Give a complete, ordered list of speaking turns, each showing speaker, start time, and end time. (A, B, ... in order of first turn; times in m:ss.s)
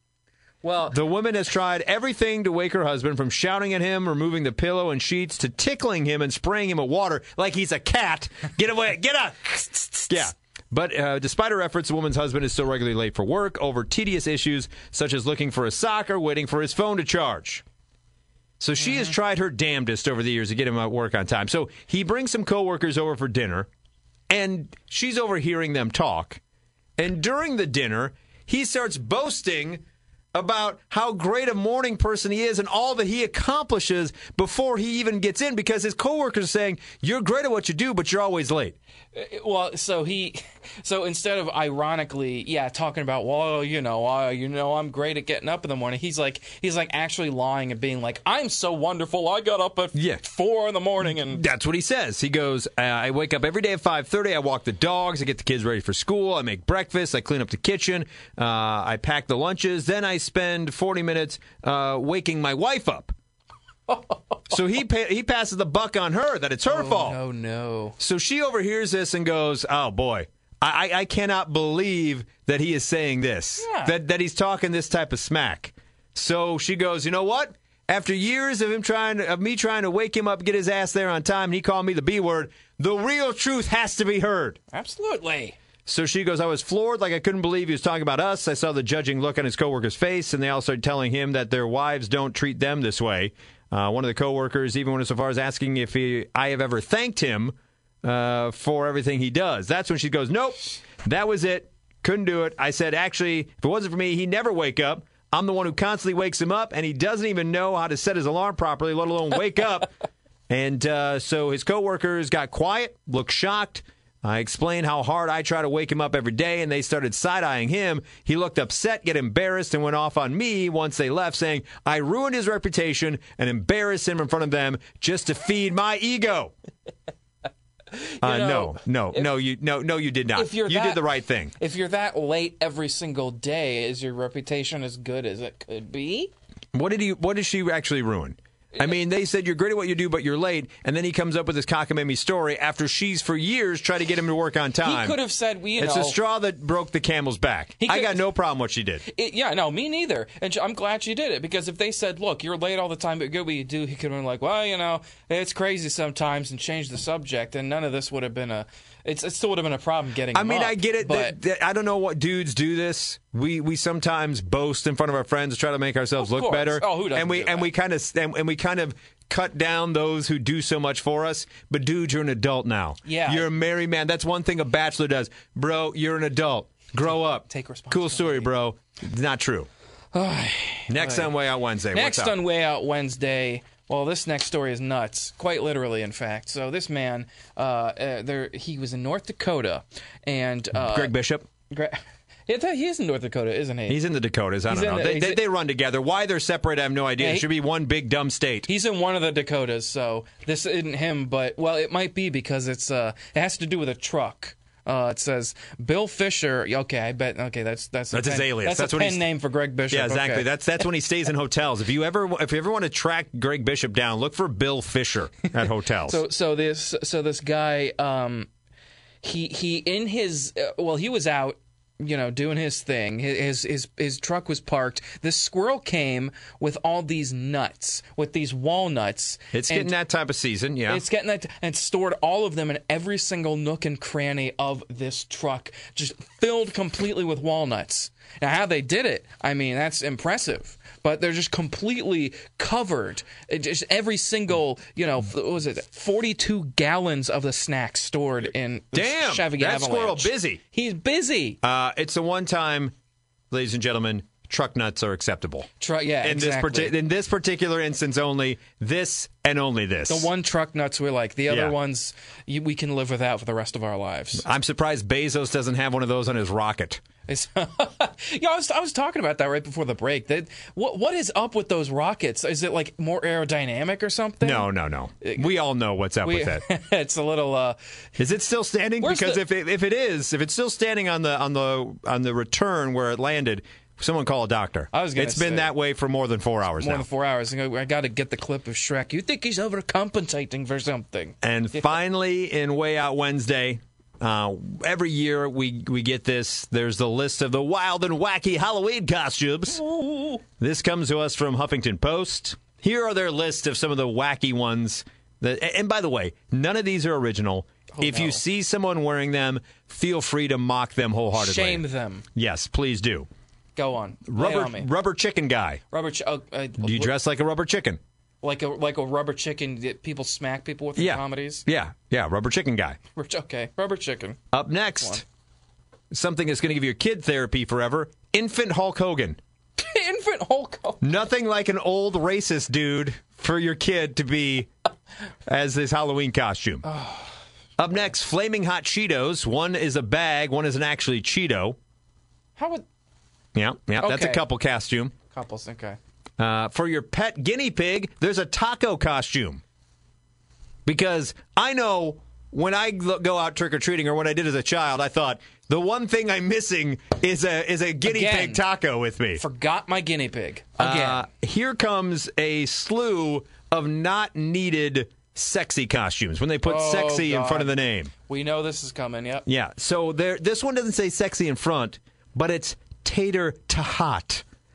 0:00.6-0:01.0 A
0:00.9-0:17.6 B
0:18.6-0:23.7 B
0:18.8-0:19.1 A
0:24.3-0:26.4 B
0:27.0-0:29.8 B
0:30.3-0:38.8 B
0:39.1-0:51.4 A
0:49.9-0:50.2 B
0:51.0-1:03.1 B
1:04.5-1:07.2 B
1:06.6-1:08.0 A
1:08.0-1:24.6 B
1:13.6-1:13.9 A
1:24.7-1:25.6 A
1:25.8-1:49.9 B
1:50.5-2:06.5 B
2:07.9-2:09.3 A
2:08.2-2:11.5 B
2:10.3-2:16.3 A
2:16.7-2:25.2 B
2:24.8-2:26.2 A
2:25.8-2:29.1 B
2:27.8-2:28.2 A
2:29.0-2:41.4 A
2:40.3-2:59.7 B
2:46.2-2:47.7 A
2:53.0-2:53.5 A
2:57.1-2:58.5 A
3:00.1-3:01.3 A
3:00.9-3:02.4 B
3:01.9-3:11.1 A
3:10.7-3:11.5 B
3:11.7-3:14.0 A
3:13.9-3:18.7 B
3:14.7-3:15.4 A
3:17.2-3:17.5 A
3:18.7-3:30.8 A
3:28.1-3:29.3 B
3:29.9-3:36.2 B
3:36.0-3:38.5 A
3:39.2-3:49.9 A
3:49.5-3:51.0 B
3:50.9-4:11.6 A
4:08.9-4:10.6 B
4:11.6-4:12.9 B
4:13.5-4:15.7 B
4:15.8-4:17.0 A
4:16.2-4:20.3 B
4:20.1-4:24.4 A
4:21.5-4:21.8 B
4:24.4-4:27.0 B
4:27.3-4:34.7 A
4:34.4-4:36.6 B
4:35.2-4:35.5 A
4:36.2-4:37.8 A
4:38.2-4:47.0 B
4:39.0-4:39.4 A
4:44.9-4:45.7 A
4:46.8-4:52.0 A
4:51.4-4:59.8 B
4:59.8-5:00.4 A
5:00.6-5:11.8 B
5:08.0-5:08.4 A
5:11.3-5:12.2 A
5:12.3-5:13.3 B
5:13.8-5:14.9 A
5:14.3-5:15.8 B
5:15.9-5:17.2 A
5:16.8-5:18.0 B
5:18.4-5:21.6 A
5:21.0-5:23.0 B
5:23.1-5:24.4 A
5:24.5-5:25.2 B
5:26.1-5:29.4 B
5:29.8-5:31.1 A
5:31.0-5:34.7 B
5:35.5-5:36.9 B
5:36.8-5:37.3 A
5:37.8-5:41.8 B
5:42.6-5:42.8 A
5:43.5-5:45.2 B
5:44.0-5:44.4 A
5:45.3-5:46.0 A
5:46.4-5:49.6 B
5:50.8-5:59.4 B
5:58.0-5:58.6 A
5:59.4-6:01.2 A
6:00.8-6:08.1 B
6:06.6-6:09.4 A
6:09.4-6:14.4 B